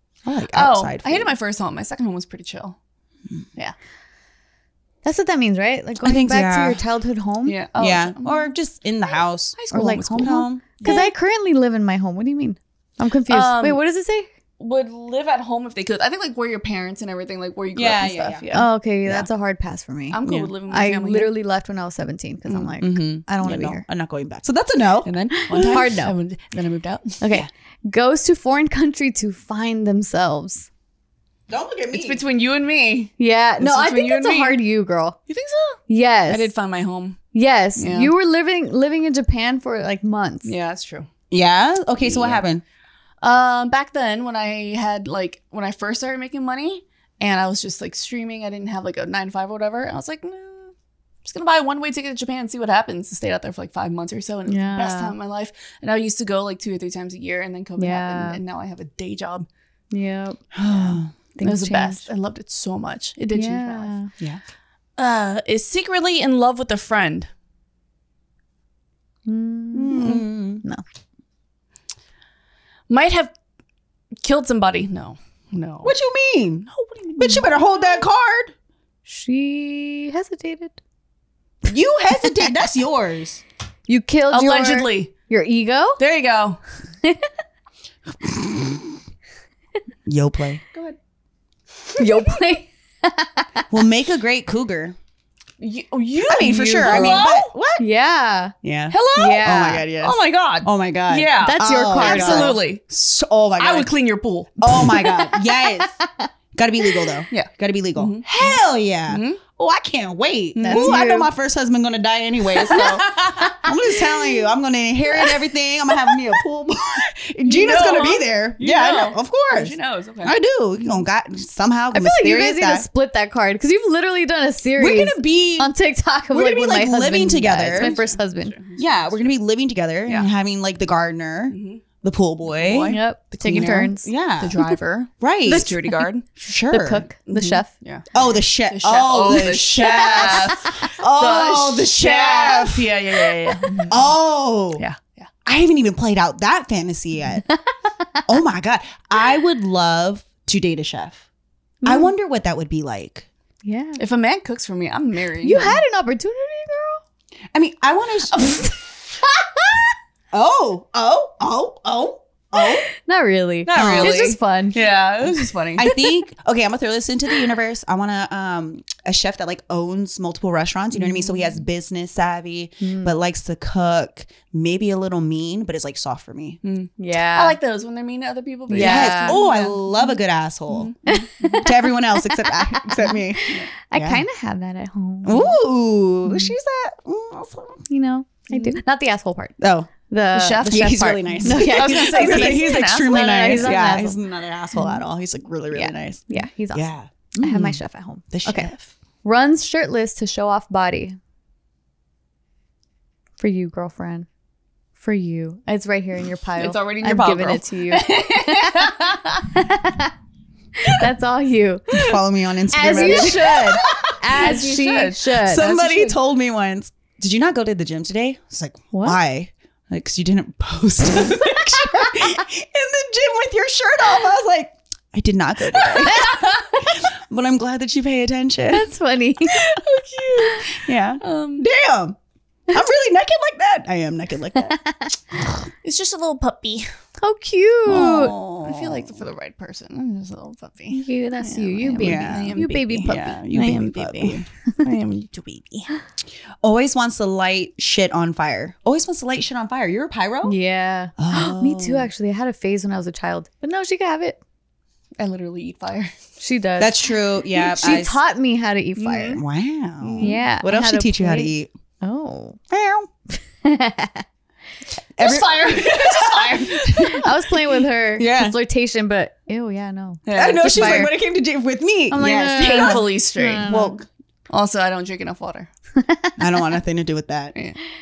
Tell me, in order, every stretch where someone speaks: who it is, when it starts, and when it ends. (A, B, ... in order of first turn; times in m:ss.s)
0:00.3-0:01.3 A
0:00.5-0:02.8 B
0:05.0-0:07.6 C
0:06.0-0:06.8 A
0:07.5-0:08.5 B
0:07.8-0:10.6 A
0:09.6-0:11.1 B
0:09.7-0:14.3 C
0:13.3-0:13.8 B
0:14.6-0:19.2 B
0:17.8-0:18.6 A
0:18.5-0:23.8 C
0:20.1-0:21.3 B
0:20.2-0:20.5 A
0:22.8-0:25.9 A
0:25.0-0:27.2 B
0:25.4-0:26.2 C
0:27.2-0:30.7 C
0:31.5-0:32.2 A
0:31.9-0:34.6 B
0:33.2-0:35.2 C
0:35.3-0:37.2 B
0:35.9-0:36.5 C
0:37.3-0:40.5 C
0:37.8-0:38.1 B
0:40.4-0:41.1 B
0:41.3-0:42.6 A
0:42.0-0:42.4 B
0:43.2-0:50.7 B
0:51.2-0:59.5 B
0:54.5-0:55.2 C
0:57.8-0:58.4 C
0:59.9-1:00.4 C
1:00.5-1:01.1 A
1:01.4-1:02.1 C
1:01.4-1:03.9 B
1:03.3-1:04.1 C
1:05.0-1:07.3 B
1:09.3-1:10.8 C
1:09.7-1:10.6 A
1:12.9-1:13.3 B
1:14.2-1:16.0 B
1:15.8-1:18.5 A
1:16.7-1:17.5 B
1:19.1-1:20.8 C
1:21.7-1:23.4 A
1:23.9-1:26.0 C
1:24.3-1:25.1 B
1:26.0-1:26.6 B
1:28.2-1:29.0 A
1:30.1-1:30.6 A
1:32.0-1:33.6 C
1:33.7-1:35.0 A
1:35.6-1:37.8 B
1:36.2-1:37.6 A
1:36.8-1:38.6 C
1:38.6-1:43.9 A
1:38.9-1:42.8 B
1:39.2-1:39.8 C
1:41.4-1:42.6 C
1:43.6-1:44.7 B
1:44.6-1:45.9 A
1:45.0-1:46.3 C
1:46.5-2:02.9 A
1:47.3-1:48.6 B
1:49.1-1:49.4 B
1:50.6-1:51.1 B
1:50.6-1:51.3 C
1:52.7-1:53.0 B
1:53.1-1:53.6 C
1:57.5-2:00.4 B
2:01.9-2:08.6 C
2:04.8-2:05.7 A
2:06.3-2:08.0 A
2:07.7-2:09.3 B
2:08.8-2:13.0 A
2:10.1-2:10.3 B
2:11.5-2:11.8 B
2:12.5-2:16.3 B
2:12.9-2:14.1 C
2:13.6-2:14.6 A
2:15.2-2:15.7 A
2:15.5-2:16.0 C
2:16.4-2:17.1 A
2:16.7-2:17.7 C
2:17.3-2:24.1 B
2:18.1-2:23.1 A
2:19.9-2:20.8 C
2:23.9-2:24.8 A
2:24.8-2:25.3 B
2:25.4-2:27.4 A
2:28.3-2:31.2 A
2:31.8-2:32.1 C
2:31.8-2:33.3 A
2:33.6-2:34.0 C
2:34.0-2:35.8 B
2:35.4-2:37.0 C
2:37.5-2:38.6 A
2:38.5-2:38.8 C
2:40.3-2:42.9 A
2:42.6-2:44.8 C
2:43.7-2:45.9 B
2:43.8-2:44.3 A
2:45.8-2:56.6 A
2:52.8-2:53.2 C
2:56.6-3:00.0 B
2:57.0-2:57.6 C
2:58.7-2:59.4 C
2:58.8-3:00.9 A
3:00.7-3:01.6 B
3:01.1-3:05.6 C
3:01.6-3:04.2 A
3:05.2-3:07.8 A
3:06.3-3:06.5 C
3:07.9-3:14.2 C
3:08.5-3:08.8 B
3:09.6-3:09.9 A
3:10.3-3:13.8 B
3:10.6-3:17.8 A
3:16.3-3:18.7 C
3:18.3-3:18.9 A
3:19.2-3:21.2 C
3:23.4-3:24.3 C
3:25.0-3:29.0 C
3:26.6-3:29.5 B
3:29.6-3:30.1 C
3:30.8-3:32.2 C
3:31.9-3:33.9 A
3:32.7-3:35.9 C
3:32.8-3:36.1 B
3:35.4-3:48.9 A
3:38.9-3:39.2 C
3:46.0-3:46.3 B
3:46.2-3:46.6 C
3:48.7-3:49.8 C
3:49.5-3:51.7 B
3:50.8-3:52.2 A
3:52.7-3:54.8 A
3:54.8-3:55.1 C
3:55.8-3:56.9 B
3:57.2-3:58.3 C
3:57.8-3:59.3 A
3:57.9-4:06.0 B
4:00.9-4:03.3 C
4:02.0-4:04.4 A
4:06.6-4:10.6 A
4:10.4-4:14.4 C
4:11.2-4:12.1 A
4:15.2-4:16.1 B
4:16.4-4:17.0 C
4:16.8-4:18.2 A
4:17.5-4:19.4 C
4:19.0-4:19.4 B
4:19.3-4:21.7 A
4:20.0-4:20.4 B
4:20.2-4:22.6 C
4:22.7-4:23.1 A
4:23.6-4:24.2 C
4:25.2-4:27.3 A
4:25.2-4:27.2 B
4:27.1-4:31.1 C
4:28.2-4:28.6 A
4:30.3-4:31.1 B
4:30.4-4:33.0 A
4:32.1-4:34.0 C
4:32.2-4:33.9 B
4:33.7-4:34.1 A
4:34.5-4:35.7 B
4:36.0-4:36.4 C
4:36.4-4:37.5 A